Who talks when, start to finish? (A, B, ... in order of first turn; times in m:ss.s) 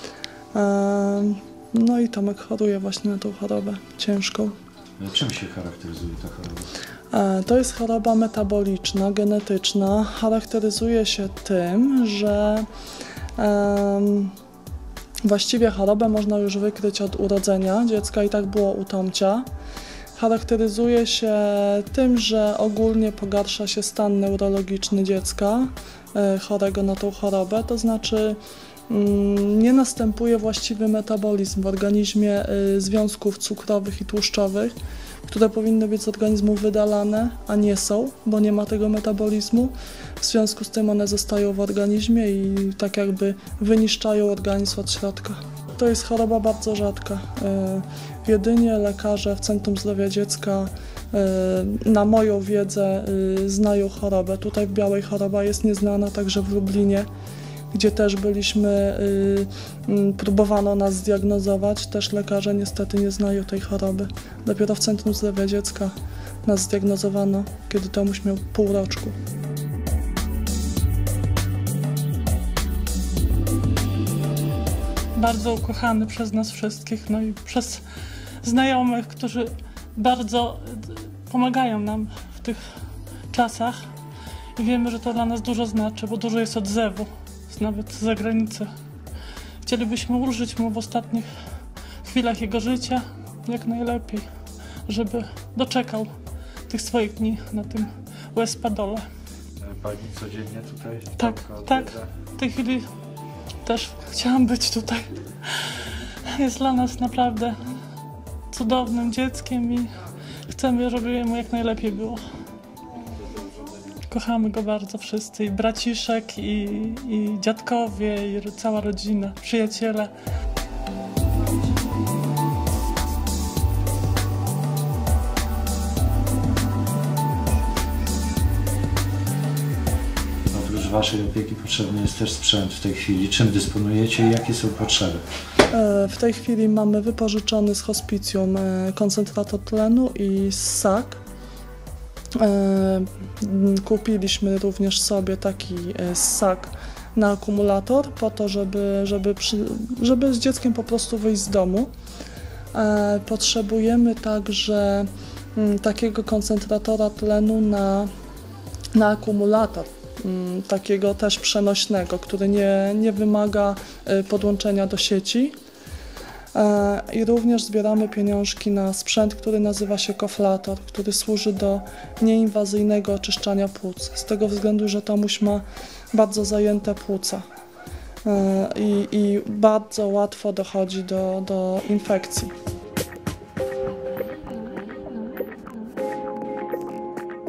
0:00.5-0:04.6 A
0:05.0-0:06.7 B
0:07.1-0:12.7 A
0:13.4-0:14.3 A
0:15.2-0:19.5 A
0:20.2-0:34.7 A
0:35.3-0:57.1 A
0:57.7-1:09.2 A
1:15.2-1:17.8 C
1:18.4-1:22.6 C
1:23.3-1:23.8 C
1:24.6-1:28.7 C
1:29.6-1:31.3 C
1:32.0-1:34.2 C
1:34.9-1:36.1 C
1:36.7-1:39.0 C
1:39.6-1:42.1 B
1:41.2-1:42.9 C
1:43.6-1:45.7 C
1:46.3-1:47.6 C
1:48.5-1:49.9 C
1:50.5-1:52.2 C
1:54.1-2:00.1 C
2:10.5-2:15.2 B
2:15.7-2:21.2 A
2:22.4-2:31.9 A
2:32.7-2:38.1 A
2:38.9-2:45.5 A
2:46.5-2:57.4 A
2:58.2-3:02.5 A